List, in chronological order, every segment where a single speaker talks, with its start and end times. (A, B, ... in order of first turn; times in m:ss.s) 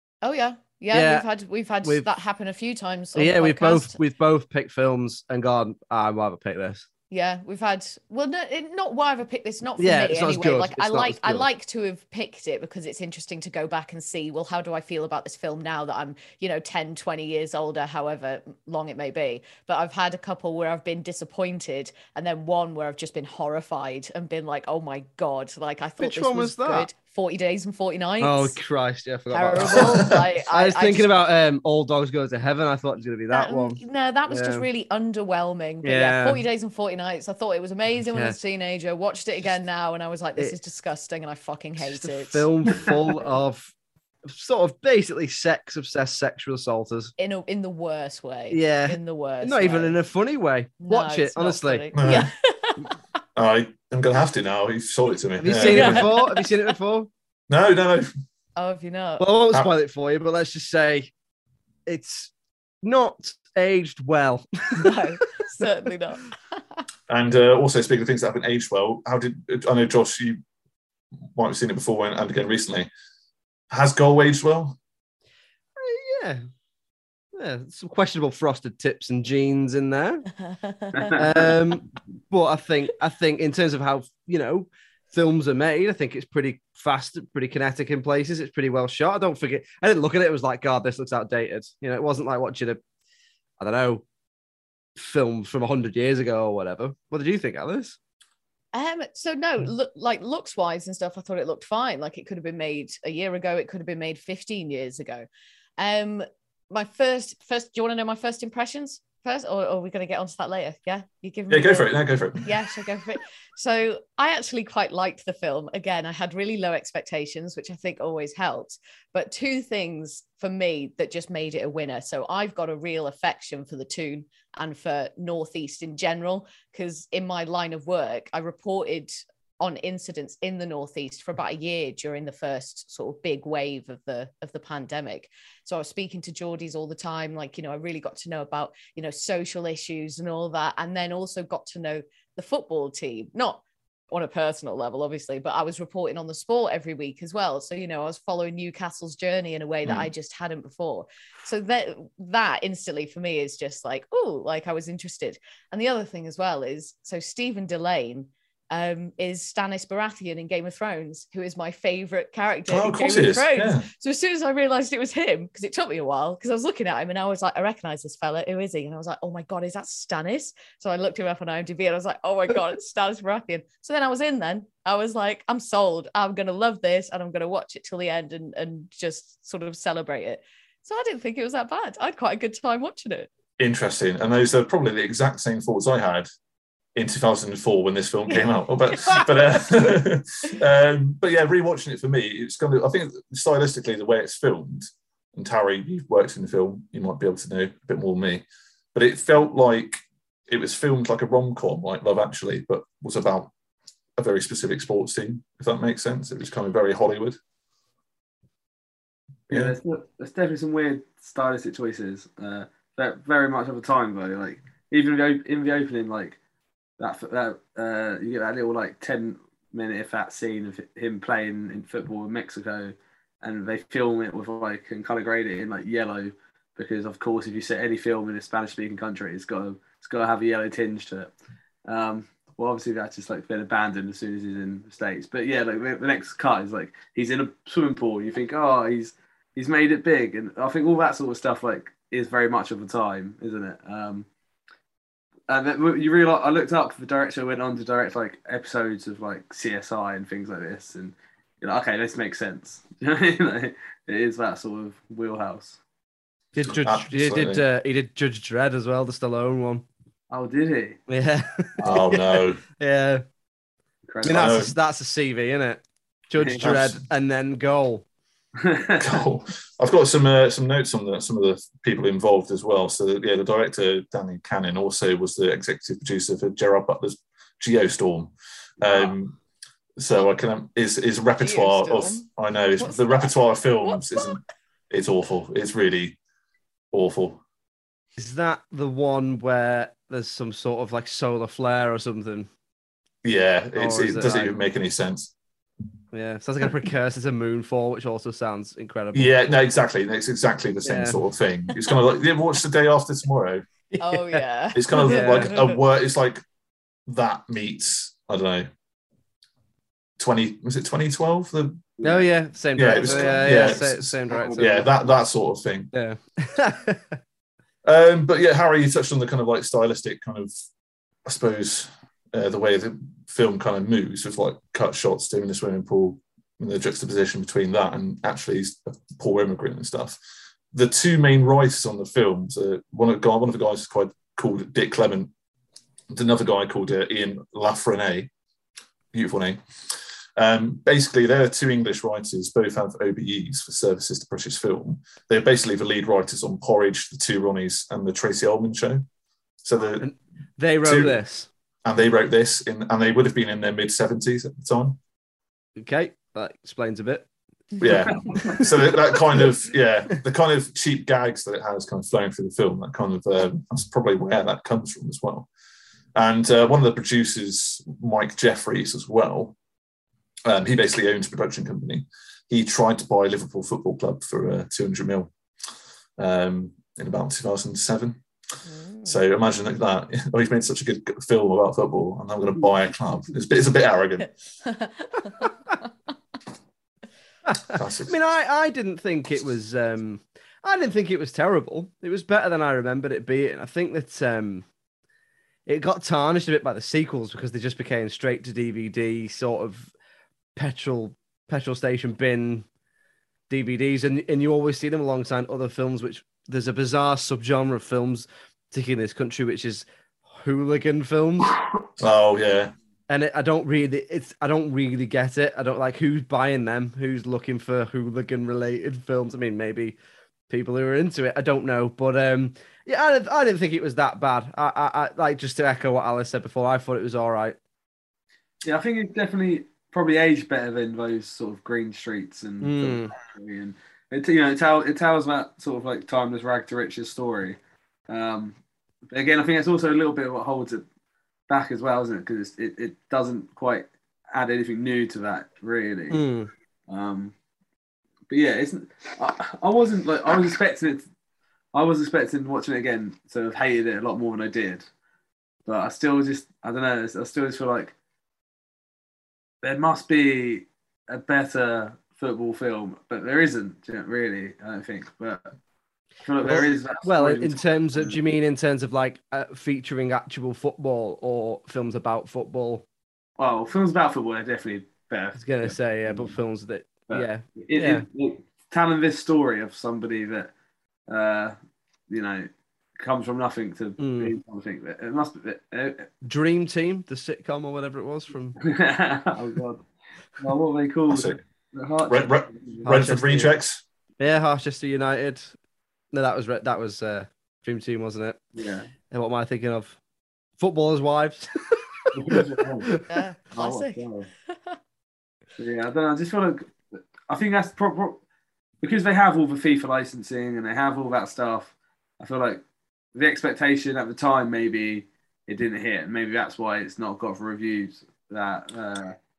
0:00.2-0:04.0 A
0:00.9-0:01.3 B
0:03.2-0:06.8 B
0:07.1-0:28.6 A
0:09.8-0:11.4 B
0:26.0-0:26.9 B
0:28.2-0:34.7 B
0:29.3-0:31.1 A
0:29.6-0:30.2 C
0:33.3-0:42.4 A
0:35.8-0:36.4 B
0:38.1-0:38.4 B
0:41.8-0:43.7 B
0:44.3-0:47.1 B
0:47.2-0:50.0 A
0:48.5-0:52.2 B
0:50.8-0:52.8 A
0:51.9-0:52.3 C
0:53.4-0:56.1 C
0:55.4-0:57.1 B
0:55.6-0:56.5 A
0:57.5-0:58.1 C
0:58.6-0:59.3 A
0:59.2-1:01.1 B
1:01.8-1:02.3 B
1:02.8-1:05.1 B
1:04.8-1:06.3 A
1:07.1-1:10.4 C
1:11.3-1:12.9 C
1:13.7-1:14.8 C
1:15.8-1:16.4 B
1:17.4-1:20.2 B
1:20.6-1:21.1 A
1:21.0-1:21.2 D
1:21.1-1:32.8 B
1:33.6-1:34.0 B
1:35.0-1:38.0 B
1:38.7-1:45.2 A
1:45.8-3:03.3 A
1:51.5-1:52.5 C
2:42.7-2:43.9 C
3:03.6-3:06.3 C
3:06.9-3:23.5 C
3:24.2-3:27.4 C
3:29.5-3:29.8 C
3:29.5-3:36.4 D
3:37.0-3:51.3 D
3:51.9-4:04.3 D
4:05.5-4:15.8 D
4:16.5-4:19.8 B
4:16.6-4:17.6 C
4:20.3-4:21.0 D
4:21.1-4:23.2 B
4:21.8-4:22.6 C
4:24.1-4:24.5 D
4:24.2-4:28.0 B
4:24.3-4:24.8 C
4:26.4-4:26.7 D
4:26.6-4:27.0 C
4:28.6-4:29.1 D
4:29.0-4:39.3 C
4:38.8-4:39.1 D
4:40.0-4:46.2 C
4:41.4-4:42.2 A
4:42.8-4:44.4 A
4:46.9-4:47.4 C
4:48.2-4:52.5 B
4:53.2-4:55.3 C
4:53.8-4:54.5 B
4:56.1-4:59.4 B
4:59.1-5:03.6 C
5:00.8-5:01.2 B
5:03.9-5:04.4 B
5:04.0-5:05.8 A
5:04.7-5:06.4 C
5:04.9-5:05.5 B
5:07.1-5:08.7 C
5:10.2-5:11.9 C
5:12.0-5:12.3 D
5:12.0-5:14.9 B
5:12.8-5:15.9 C
5:13.0-5:13.6 D
5:14.3-5:14.9 D
5:15.9-5:17.2 B
5:17.8-5:20.5 C
5:21.2-5:30.2 C
5:30.7-5:35.3 C
5:36.1-5:38.3 C
5:39.1-5:49.0 C
5:49.6-5:50.1 C
5:50.0-5:51.5 B
5:50.8-5:51.2 C
5:51.8-5:55.0 C
5:55.8-5:57.3 B
5:57.8-6:05.5 C
5:58.0-5:58.7 D
5:58.2-5:59.0 B
6:06.1-6:09.6 C
6:10.4-6:15.3 C
6:16.2-6:18.2 C
6:18.6-6:19.2 A
6:19.0-6:24.3 C
6:27.5-6:34.6 B
6:27.7-6:28.1 C
6:35.6-6:39.9 B
6:40.6-6:42.6 B
6:43.5-6:51.6 B
6:52.0-6:52.7 C
6:53.1-7:00.0 B
7:00.5-7:07.6 B
7:08.6-7:17.6 D
7:12.6-7:13.1 B
7:18.1-7:18.6 D
7:19.1-7:20.8 D
7:21.5-7:26.2 D
7:26.1-7:26.5 B
7:26.9-7:27.3 D
7:28.3-7:31.0 D
7:31.7-7:34.9 D
7:35.6-7:37.9 D
7:39.6-7:45.5 D
7:46.2-7:48.2 D
7:46.4-7:52.8 B
7:53.4-7:56.4 D
7:55.4-7:58.0 B
7:57.1-8:00.5 D
8:01.1-8:01.5 D
8:02.1-8:06.1 D
8:04.0-8:04.3 B
8:06.2-8:08.6 B
8:08.6-8:09.8 D
8:10.4-8:12.8 D
8:11.1-8:11.4 C
8:12.1-8:13.8 C
8:12.8-8:13.5 B
8:14.2-8:15.5 B
8:16.1-8:18.4 B
8:18.6-8:18.9 D
8:19.1-8:20.0 B
8:20.6-8:21.4 B
8:22.1-8:24.3 D
8:23.1-8:24.0 A
8:25.6-8:28.2 D
8:28.8-8:32.6 D
8:33.1-8:39.2 D